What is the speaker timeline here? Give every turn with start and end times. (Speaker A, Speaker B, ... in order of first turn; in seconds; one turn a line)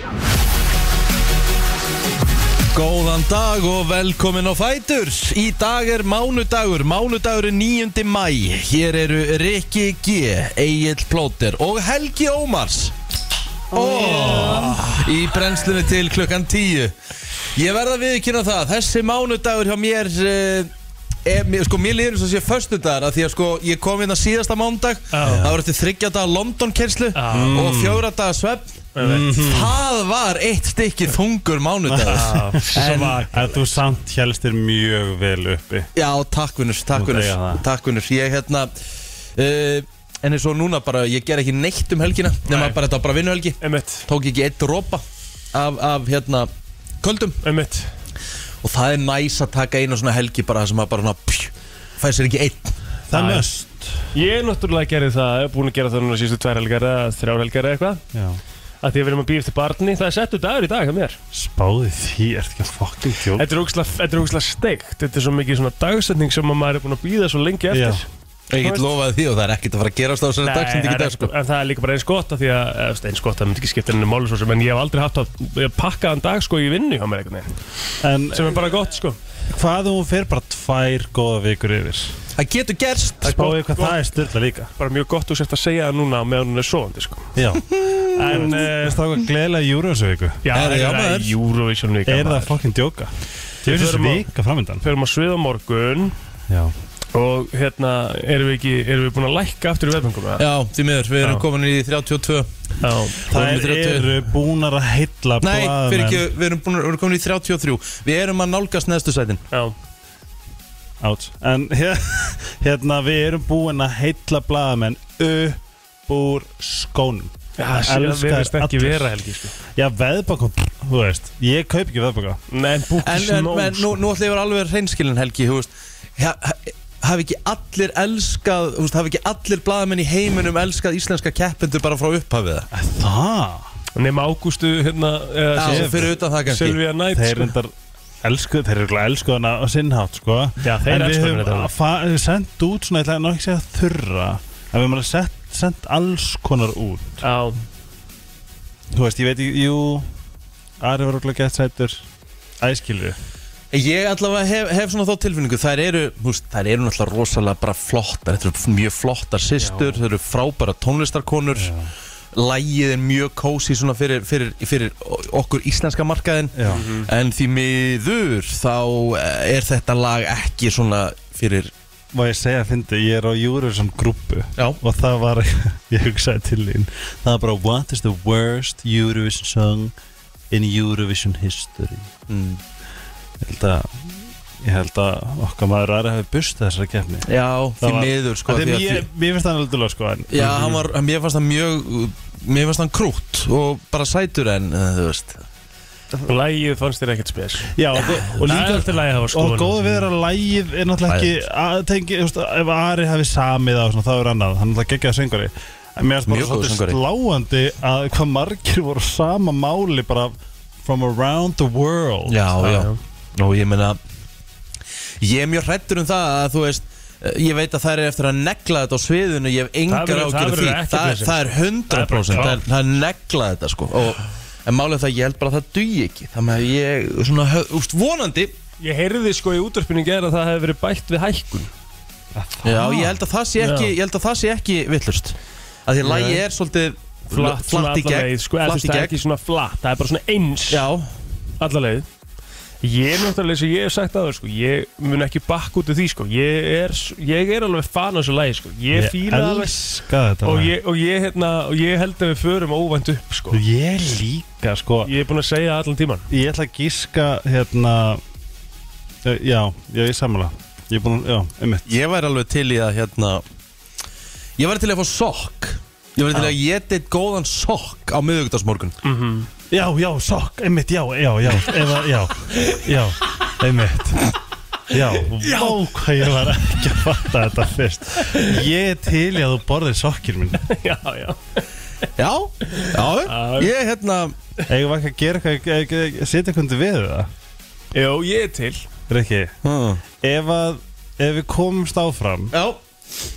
Speaker A: 2.7-12.9
Speaker A: 13.7-16.9
Speaker B: 13.8-15.1
Speaker A: 17.6-20.7
Speaker A: 21.2-33.2
Speaker C: 25.1-25.4
Speaker B: 25.2-25.6
Speaker C: 27.1-27.5
Speaker B: 27.3-28.1
Speaker C: 28.9-29.3
Speaker B: 29.0-29.7
Speaker B: 31.9-35.9
Speaker C: 32.1-33.6
Speaker A: 36.0-38.7
Speaker B: 36.9-37.6
Speaker A: 39.4-46.5
Speaker C: 42.5-42.8
Speaker C: 43.6-44.0
Speaker A: 47.0-47.4
Speaker C: 47.4-47.9
Speaker A: 48.6-52.8
Speaker B: 53.1-54.1
Speaker C: 53.1-53.5
Speaker C: 54.1-58.0
Speaker B: 58.1-58.4
Speaker C: 58.8-61.2
Speaker B: 61.3-63.5
Speaker C: 63.4-68.1
Speaker B: 67.7-68.0
Speaker A: 68.5-71.3
Speaker C: 70.4-77.5
Speaker B: 78.0-78.8
Speaker C: 78.3-79.2
Speaker B: 79.5-82.2
Speaker A: 82.4-83.4
Speaker C: 83.2-84.0
Speaker B: 83.2-84.7
Speaker C: 84.8-87.3
Speaker B: 87.4-90.5
Speaker C: 88.3-88.6
Speaker C: 90.4-92.6
Speaker A: 90.5-91.3
Speaker B: 92.1-93.1
Speaker B: 93.6-94.8
Speaker C: 93.7-94.3
Speaker C: 94.8-96.2
Speaker B: 96.5-96.7
Speaker C: 97.1-100.4
Speaker A: 100.4-102.5
Speaker C: 102.8-103.2
Speaker A: 103.2-104.2
Speaker B: 103.3-106.3
Speaker A: 105.4-109.4
Speaker B: 111.0-119.2
Speaker C: 117.6-119.5
Speaker B: 119.7-122.4
Speaker C: 122.5-123.9
Speaker A: 123.0-132.7
Speaker B: 132.7-133.7
Speaker C: 134.0-137.5
Speaker A: 135.6-136.8
Speaker B: 135.6-136.1
Speaker B: 137.1-147.2
Speaker C: 140.6-141.7
Speaker C: 147.2-147.6
Speaker B: 148.9-150.1
Speaker B: 150.8-152.1
Speaker B: 152.6-153.2
Speaker A: 153.7-161.7
Speaker B: 159.6-160.0
Speaker B: 161.5-161.9
Speaker A: 162.3-171.7
Speaker B: 166.6-166.8
Speaker C: 166.7-167.1
Speaker B: 172.1-179.9
Speaker B: 180.5-182.1
Speaker A: 182.3-182.6
Speaker B: 183.4-187.3
Speaker A: 187.3-189.1
Speaker B: 187.8-190.8
Speaker A: 190.3-195.4
Speaker C: 196.2-197.7
Speaker B: 197.8-212.4
Speaker C: 198.4-199.8
Speaker A: 206.3-207.0
Speaker A: 212.3-214.0
Speaker C: 212.6-213.0
Speaker A: 215.2-228.5
Speaker C: 219.9-222.6
Speaker C: 228.8-231.7
Speaker B: 232.3-233.2
Speaker A: 232.6-239.2
Speaker C: 233.6-233.9
Speaker C: 236.0-236.4
Speaker C: 237.3-240.8
Speaker A: 240.7-241.1
Speaker C: 241.6-242.1
Speaker C: 242.8-249.8
Speaker B: 248.9-250.7
Speaker C: 250.4-253.6
Speaker B: 253.5-255.1
Speaker C: 255.0-256.3
Speaker B: 256.3-258.2
Speaker B: 259.2-261.9
Speaker A: 261.9-263.4
Speaker A: 264.6-269.0
Speaker C: 269.0-269.5
Speaker B: 269.7-274.4
Speaker B: 274.9-280.7
Speaker C: 275.4-275.8
Speaker C: 278.2-278.5
Speaker C: 280.6-281.6
Speaker A: 282.2-284.4
Speaker C: 282.7-283.7
Speaker B: 284.7-287.3
Speaker C: 287.9-288.9
Speaker B: 289.1-289.5
Speaker A: 289.6-290.0
Speaker B: 290.2-292.5
Speaker A: 292.5-292.8